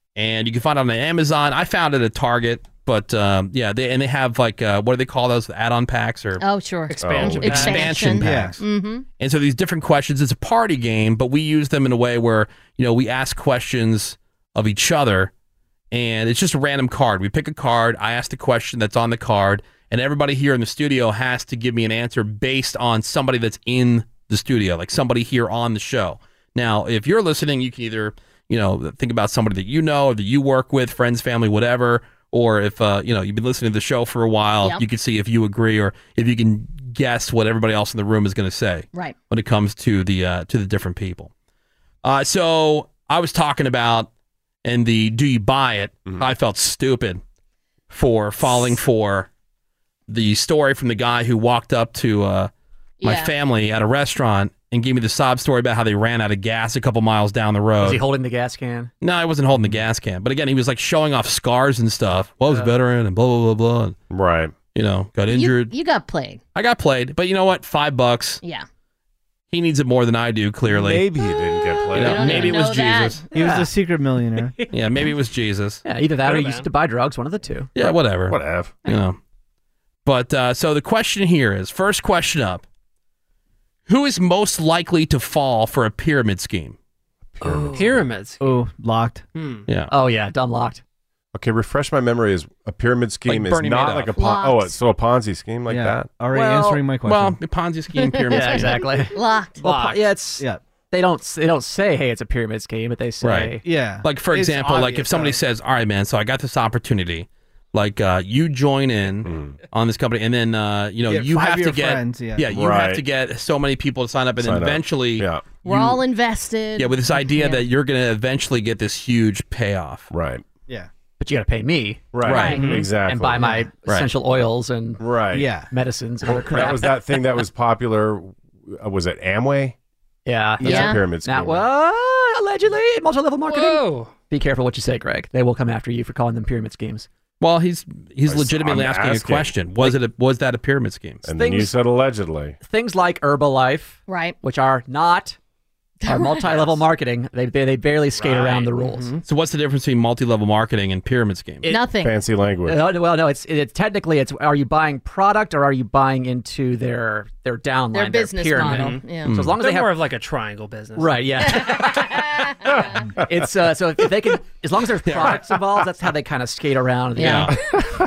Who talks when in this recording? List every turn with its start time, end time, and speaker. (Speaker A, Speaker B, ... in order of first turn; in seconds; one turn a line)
Speaker A: 0.2-6.4
Speaker B: 6.4-9.1
Speaker C: 6.9-7.9
Speaker D: 7.0-7.7
Speaker A: 7.2-8.6
Speaker E: 8.2-8.6
Speaker A: 9.2-15.3
Speaker A: 15.9-41.3
Speaker A: 42.0-44.1
Speaker A: 44.6-47.2
Speaker A: 47.9-49.3
Speaker A: 50.1-52.5
Speaker B: 53.0-53.3
Speaker A: 53.0-58.0
Speaker F: 57.8-58.9
Speaker A: 59.0-64.0
Speaker D: 64.1-64.5
Speaker A: 64.7-65.7
Speaker B: 65.3-66.4
Speaker A: 66.5-68.4
Speaker A: 69.5-71.1
Speaker D: 70.7-72.5
Speaker B: 71.9-73.3
Speaker A: 71.9-73.2
Speaker E: 73.3-74.6
Speaker C: 74.4-74.7
Speaker A: 74.7-75.8
Speaker F: 75.8-77.7
Speaker C: 76.2-76.7
Speaker A: 77.8-79.2
Speaker D: 77.8-78.8
Speaker A: 80.0-82.6
Speaker A: 83.9-86.8
Speaker D: 87.4-88.1
Speaker C: 87.5-88.5
Speaker E: 88.4-89.3
Speaker C: 89.3-89.7
Speaker F: 89.9-90.8
Speaker D: 91.3-96.1
Speaker A: 93.3-94.1
Speaker B: 94.2-94.8
Speaker E: 95.7-97.4
Speaker F: 96.3-96.9
Speaker A: 97.0-98.8
Speaker B: 98.1-99.6
Speaker F: 98.3-103.7
Speaker C: 99.6-100.1
Speaker A: 103.2-116.0
Speaker E: 103.6-105.4
Speaker D: 109.2-109.5
Speaker E: 111.1-112.5
Speaker D: 112.5-113.0
Speaker D: 114.4-115.4
Speaker B: 115.6-117.7
Speaker A: 116.8-120.1
Speaker D: 120.1-120.4
Speaker F: 121.2-125.0
Speaker D: 122.1-123.5
Speaker A: 122.2-122.7
Speaker B: 122.3-122.6
Speaker C: 122.5-122.9
Speaker E: 123.4-123.7
Speaker D: 125.0-125.5
Speaker E: 125.3-125.7
Speaker F: 125.7-127.0
Speaker D: 126.3-129.8
Speaker F: 130.3-137.1
Speaker D: 130.6-131.7
Speaker B: 130.6-131.0
Speaker C: 133.5-134.2
Speaker A: 137.4-141.2
Speaker D: 138.3-139.6
Speaker D: 141.2-142.6
Speaker F: 141.3-141.7
Speaker F: 142.6-145.4
Speaker B: 144.1-144.4
Speaker B: 146.1-146.7
Speaker F: 146.1-149.2
Speaker C: 148.2-149.2
Speaker A: 149.2-151.7
Speaker F: 151.6-151.9
Speaker B: 151.7-152.2
Speaker D: 152.0-152.8
Speaker F: 152.7-160.0
Speaker B: 157.9-159.3
Speaker C: 158.6-159.1
Speaker A: 159.2-159.5
Speaker C: 159.6-161.7
Speaker F: 161.0-167.6
Speaker B: 161.5-162.1
Speaker A: 165.1-165.4
Speaker B: 167.2-167.8
Speaker A: 167.2-167.6